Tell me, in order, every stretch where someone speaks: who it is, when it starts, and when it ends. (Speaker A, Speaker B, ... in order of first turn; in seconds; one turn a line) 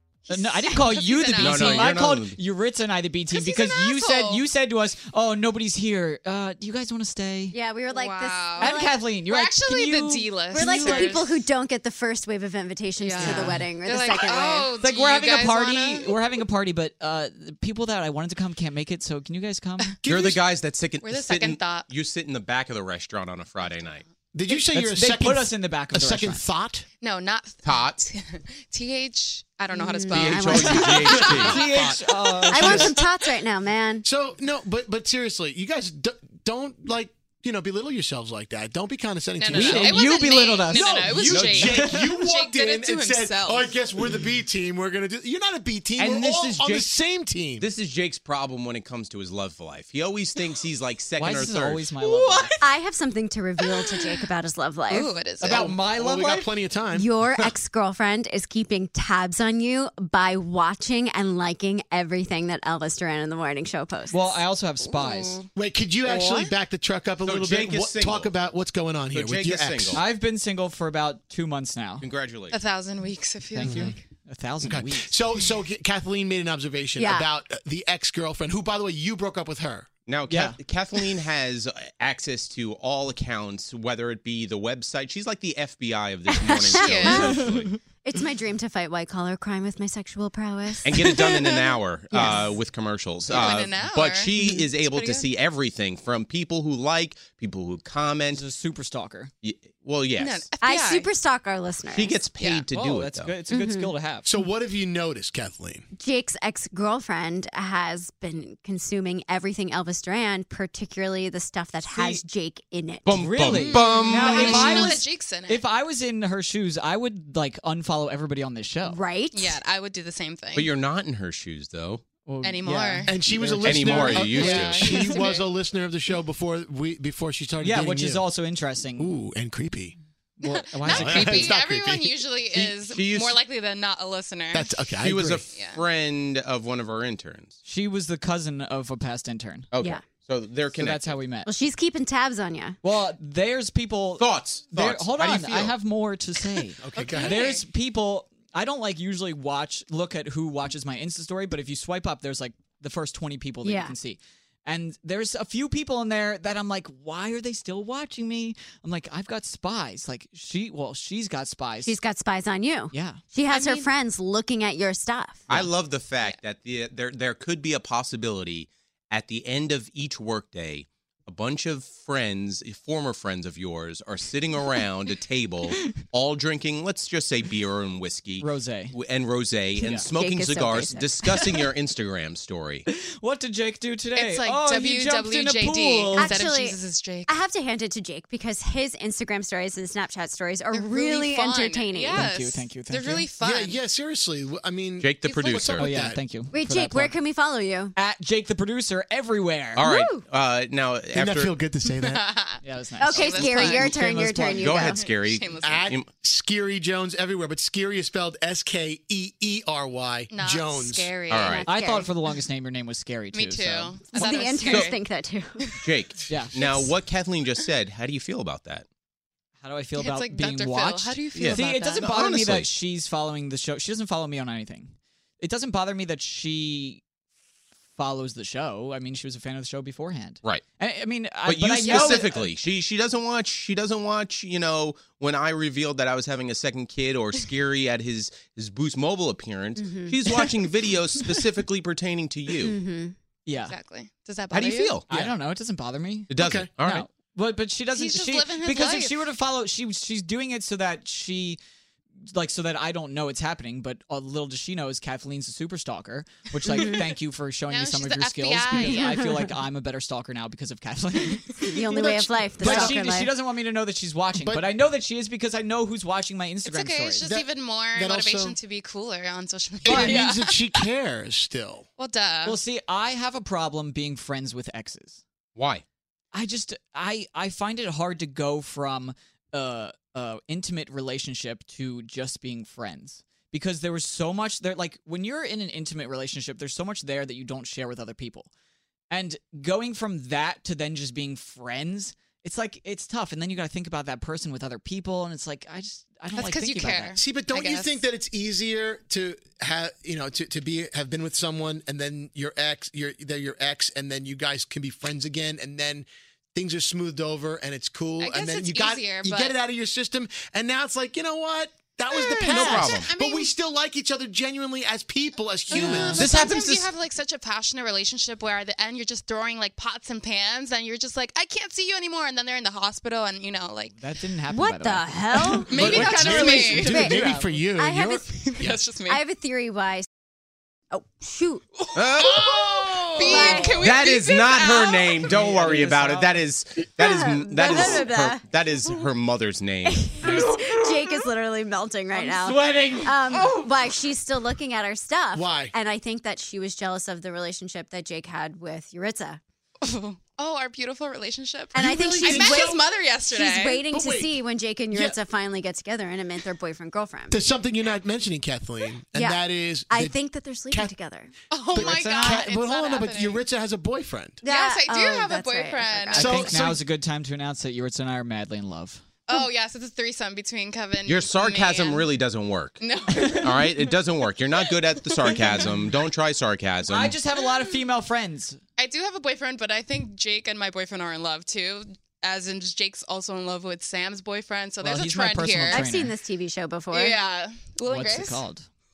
Speaker A: 0.3-2.0
Speaker B: 0.3-7.6
Speaker C: 1.4-2.4
Speaker A: 3.3-4.4
Speaker D: 7.5-9.0
Speaker A: 7.9-11.4
Speaker B: 8.6-11.2
Speaker D: 10.5-14.7
Speaker A: 13.0-16.1
Speaker B: 13.2-13.7
Speaker B: 14.8-20.0
Speaker E: 20.0-20.5
Speaker C: 20.0-24.0
Speaker A: 21.0-21.9
Speaker E: 24.3-26.8
Speaker B: 24.7-26.4
Speaker A: 27.0-31.8
Speaker C: 27.6-28.0
Speaker D: 29.7-31.2
Speaker C: 30.1-31.7
Speaker B: 30.2-33.0
Speaker E: 31.1-32.9
Speaker D: 32.5-34.0
Speaker E: 34.0-40.1
Speaker A: 39.4-43.7
Speaker B: 39.5-42.2
Speaker E: 40.7-47.7
Speaker C: 41.3-41.9
Speaker C: 46.0-47.0
Speaker C: 47.6-51.9
Speaker B: 51.1-52.7
Speaker A: 52.0-52.5
Speaker D: 52.6-55.1
Speaker A: 53.6-54.2
Speaker A: 54.9-55.7
Speaker B: 55.4-56.5
Speaker E: 55.4-57.1
Speaker D: 56.9-64.4
Speaker B: 64.1-65.4
Speaker A: 64.8-65.5
Speaker E: 65.5-70.0
Speaker D: 66.0-66.5
Speaker C: 67.2-68.3
Speaker C: 69.1-70.0
Speaker B: 69.9-72.1
Speaker C: 72.0-72.6
Speaker A: 72.5-74.0
Speaker B: 73.5-75.1
Speaker E: 73.6-74.0
Speaker E: 74.6-79.9
Speaker D: 77.0-77.3
Speaker C: 80.1-87.7
Speaker B: 80.3-80.6
Speaker D: 86.3-87.5
Speaker A: 86.7-87.6
Speaker D: 88.0-91.0
Speaker C: 90.8-98.4
Speaker A: 91.0-91.7
Speaker D: 92.1-92.5
Speaker A: 93.3-95.3
Speaker B: 98.3-99.3
Speaker C: 99.4-100.5
Speaker A: 100.2-101.1
Speaker D: 100.6-102.2
Speaker C: 101.9-103.4
Speaker A: 102.4-102.7
Speaker B: 102.7-104.3
Speaker D: 103.5-103.9
Speaker E: 104.2-105.8
Speaker D: 106.0-113.7
Speaker B: 111.9-112.2
Speaker C: 113.0-114.8
Speaker B: 113.1-119.0
Speaker A: 113.4-115.6
Speaker D: 118.8-119.6
Speaker A: 119.3-120.7
Speaker C: 120.5-122.0
Speaker B: 122.2-125.2
Speaker A: 122.4-123.1
Speaker E: 123.1-128.3
Speaker C: 123.6-124.9
Speaker A: 124.5-125.4
Speaker B: 127.6-129.1
Speaker E: 128.9-129.9
Speaker B: 130.4-131.5
Speaker A: 130.4-134.8
Speaker E: 130.9-132.8
Speaker C: 132.9-133.4
Speaker E: 134.5-135.4
Speaker C: 135.0-137.5
Speaker A: 135.5-135.8
Speaker B: 137.6-139.7
Speaker C: 139.7-141.2
Speaker D: 139.8-140.0
Speaker B: 140.7-141.5
Speaker D: 141.4-142.8
Speaker B: 142.8-162.0
Speaker C: 144.2-145.8
Speaker E: 146.9-147.4
Speaker C: 146.9-147.1
Speaker A: 146.9-147.6
Speaker D: 153.6-153.9
Speaker D: 161.8-165.5
Speaker B: 162.9-163.2
Speaker A: 163.5-163.9
Speaker C: 165.5-182.8
Speaker B: 178.4-178.9
Speaker D: 179.8-181.3
Speaker B: 179.8-180.1
Speaker B: 181.2-181.7
Speaker B: 182.8-186.4
Speaker A: 184.1-187.4
Speaker D: 186.1-192.2
Speaker A: 190.7-193.8
Speaker B: 192.1-193.3
Speaker E: 193.4-196.2
Speaker C: 195.0-195.9
Speaker A: 195.2-195.6
Speaker B: 195.8-197.2
Speaker D: 196.5-197.9
Speaker B: 197.9-199.9
Speaker C: 199.8-201.6
Speaker D: 199.8-200.2
Speaker E: 201.1-202.2
Speaker A: 202.0-204.0
Speaker B: 202.6-204.9
Speaker D: 203.0-205.1
Speaker C: 204.6-206.1
Speaker A: 204.9-205.9
Speaker E: 205.6-211.3
Speaker A: 210.3-212.1
Speaker C: 211.3-211.7
Speaker B: 211.6-214.9
Speaker A: 213.3-215.0
Speaker D: 214.1-215.7
Speaker C: 214.7-214.9
Speaker C: 215.8-218.8
Speaker B: 216.3-216.6
Speaker B: 219.6-227.0
Speaker A: 219.9-222.2
Speaker C: 221.3-222.7
Speaker B: 228.0-232.5
Speaker C: 231.4-242.8
Speaker A: 231.8-232.2
Speaker D: 239.7-240.6
Speaker D: 242.6-243.1
Speaker B: 243.4-243.7
Speaker A: 243.6-245.0
Speaker C: 244.5-245.1
Speaker B: 245.1-251.6
Speaker C: 246.3-247.1
Speaker E: 246.4-246.7
Speaker A: 247.9-249.2
Speaker B: 252.3-261.5
Speaker D: 256.7-257.1
Speaker A: 257.7-259.2
Speaker D: 258.8-259.1
Speaker D: 261.6-263.3
Speaker E: 262.0-262.9
Speaker B: 262.6-267.3
Speaker E: 264.3-264.7
Speaker A: 266.6-270.8
Speaker E: 267.2-268.6
Speaker E: 269.8-271.9
Speaker B: 269.9-270.2
Speaker A: 272.0-272.6
Speaker B: 272.4-275.2
Speaker C: 275.5-275.8
Speaker B: 276.3-288.5
Speaker B: 289.1-297.2
Speaker A: 296.4-298.0
Speaker E: 297.2-316.3
Speaker A: 308.2-309.6
Speaker A: 312.1-313.5
Speaker C: 312.3-313.1
Speaker A: 315.7-323.9
Speaker B: 315.8-316.2
Speaker C: 316.1-316.9
Speaker B: 323.9-327.6
Speaker D: 324.5-325.8
Speaker A: 325.7-326.9
Speaker E: 325.7-328.8
Speaker C: 326.2-326.8
Speaker D: 326.8-330.1
Speaker A: 328.4-329.2
Speaker D: 330.9-331.6
Speaker A: 331.8-335.2
Speaker C: 331.9-332.7
Speaker E: 332.6-333.7
Speaker D: 333.2-334.0
Speaker C: 333.8-340.3
Speaker B: 335.2-336.5
Speaker D: 337.0-338.4
Speaker D: 339.8-349.4
Speaker B: 340.3-341.2
Speaker B: 342.1-343.7
Speaker E: 345.3-345.7
Speaker A: 349.9-353.9
Speaker D: 351.7-357.4
Speaker E: 351.8-352.8
Speaker E: 353.9-354.4
Speaker E: 354.9-355.2
Speaker E: 357.3-360.2
Speaker D: 359.1-361.3
Speaker A: 361.5-363.4
Speaker E: 361.7-364.4
Speaker B: 361.7-362.4
Speaker D: 364.4-366.4
Speaker A: 364.4-366.5
Speaker B: 366.1-369.0
Speaker E: 366.1-366.8
Speaker A: 369.3-372.1
Speaker C: 371.0-377.2
Speaker A: 372.8-373.9
Speaker A: 374.5-375.7
Speaker B: 376.8-378.6
Speaker A: 378.8-385.8
Speaker B: 384.8-386.1
Speaker D: 385.7-387.2
Speaker A: 386.9-388.4
Speaker B: 387.9-388.6